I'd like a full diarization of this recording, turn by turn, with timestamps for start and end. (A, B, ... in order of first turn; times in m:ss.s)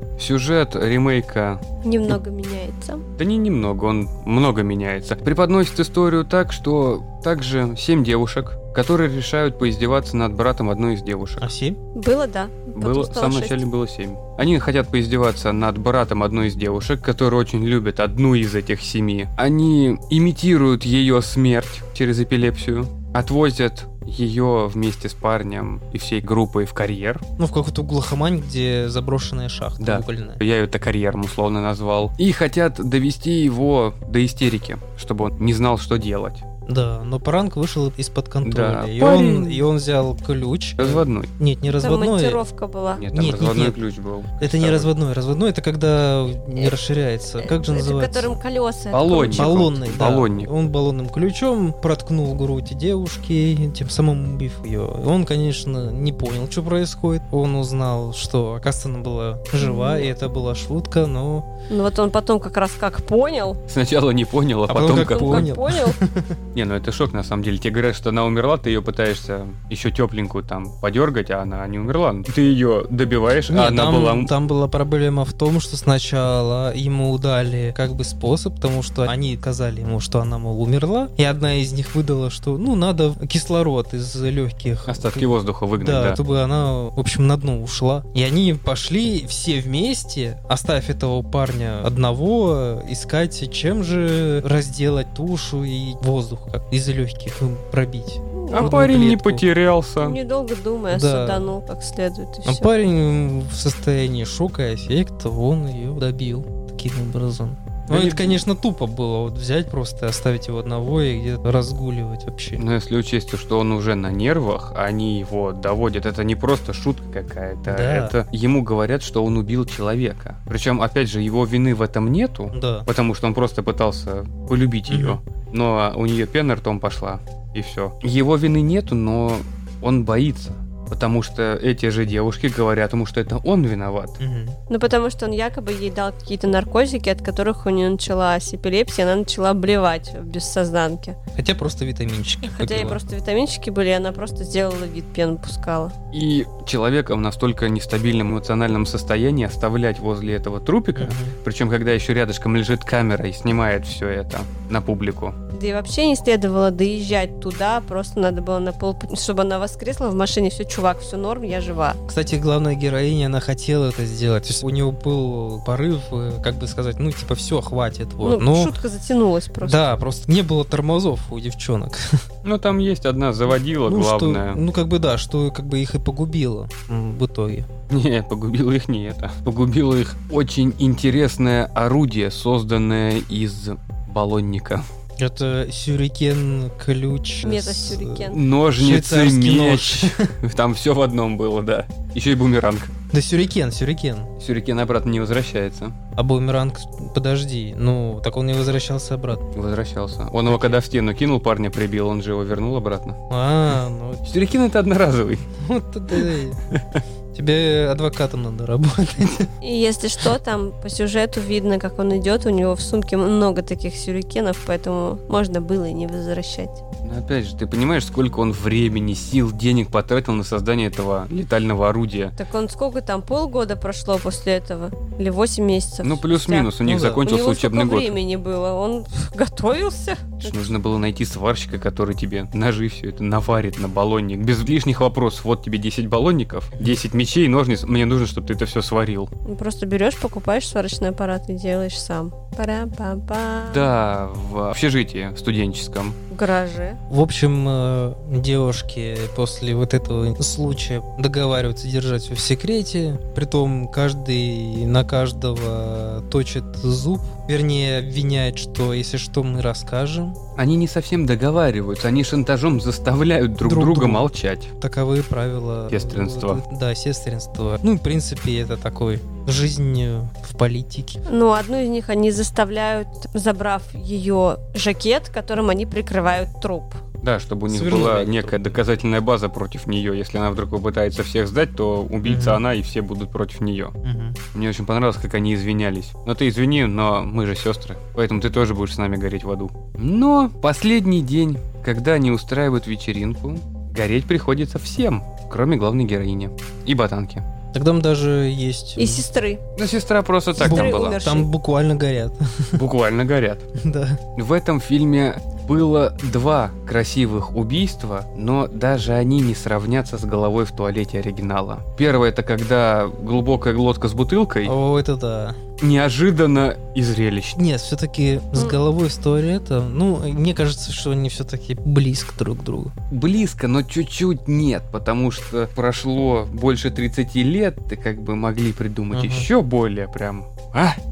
0:00.2-0:01.6 A
0:01.8-0:03.0 B
0:03.2-0:11.5 A
0:11.4-0:11.8 C
0:12.0-0:13.6 B
0:12.8-0:27.2 A
0:27.4-0:30.4 C
0:29.8-0:36.4 A
0:36.7-0:42.4 C
0:38.4-0:39.7 A
0:40.8-0:41.3 A
0:41.7-0:43.0 B
0:43.0-0:44.9 A
0:43.1-0:43.8 C
0:44.4-0:48.4 C
0:47.4-0:49.6 B
0:48.9-0:50.5 A
0:49.3-1:01.5 C
0:59.6-1:00.1 B
1:01.7-1:03.6 B
1:03.7-1:05.5 A
1:04.7-1:06.4 C
1:04.9-1:06.0 B
1:06.5-1:14.3 A
1:13.5-1:39.4 C
1:24.9-1:26.2 A
1:38.4-1:38.8 B
1:38.5-1:40.2 A
1:40.0-1:42.7 B
1:40.9-1:41.5 C
1:42.5-1:52.6 C
1:47.9-1:48.4 A
1:52.6-2:14.2 A
1:57.7-1:58.2 C
2:02.5-2:02.9 C
2:04.9-2:05.2 C
2:14.2-2:14.6 C
2:14.7-2:21.2 B
2:21.4-2:23.0 C
2:22.4-2:25.9 B
2:26.1-2:35.4 A
2:31.0-2:31.4 C
2:35.5-2:42.0 B
2:42.1-2:48.8 C
2:48.2-2:49.8 B
2:49.6-2:52.2 C
2:52.4-2:54.6 A
2:53.9-2:57.7 C
2:57.9-3:04.8 A
3:05.2-3:10.3 C
3:07.4-3:08.4 B
3:08.3-3:12.9 A
3:13.1-3:14.3 C
3:14.4-3:16.0 A
3:16.2-3:19.4 C
3:19.6-3:23.2 A
3:20.5-3:20.8 C
3:23.3-3:24.4 C
3:24.3-3:25.4 A
3:25.6-3:26.6 C
3:26.2-3:27.0 A
3:27.3-3:29.5 C
3:29.6-3:36.8 B
3:37.0-3:42.4 A
3:42.4-3:46.7 B
3:46.0-3:48.1 A
3:46.8-3:47.2 C
3:47.2-3:50.7 B
3:50.4-3:59.3 A
3:59.4-4:03.8 B
4:03.7-4:06.2 A
4:06.3-4:07.0 B
4:07.1-4:20.4 C
4:20.6-4:24.7 A
4:23.6-4:24.3 C
4:24.8-4:31.2 C
4:25.9-4:26.6 A
4:31.3-4:37.0 B
4:37.2-4:43.9 A
4:37.7-4:38.8 C
4:42.2-4:42.6 C
4:44.0-4:44.4 C
4:44.5-4:57.4 A
4:57.7-4:59.2 C
4:59.0-4:59.6 B
4:59.8-5:01.2 A
5:00.6-5:01.5 B
5:00.6-5:02.8 C
5:02.8-5:03.7 A
5:03.8-5:04.2 C
5:04.4-5:14.7 A
5:14.6-5:15.6 C
5:15.8-5:17.6 A
5:17.6-5:22.9 C
5:23.1-5:31.0 A
5:29.1-5:29.5 C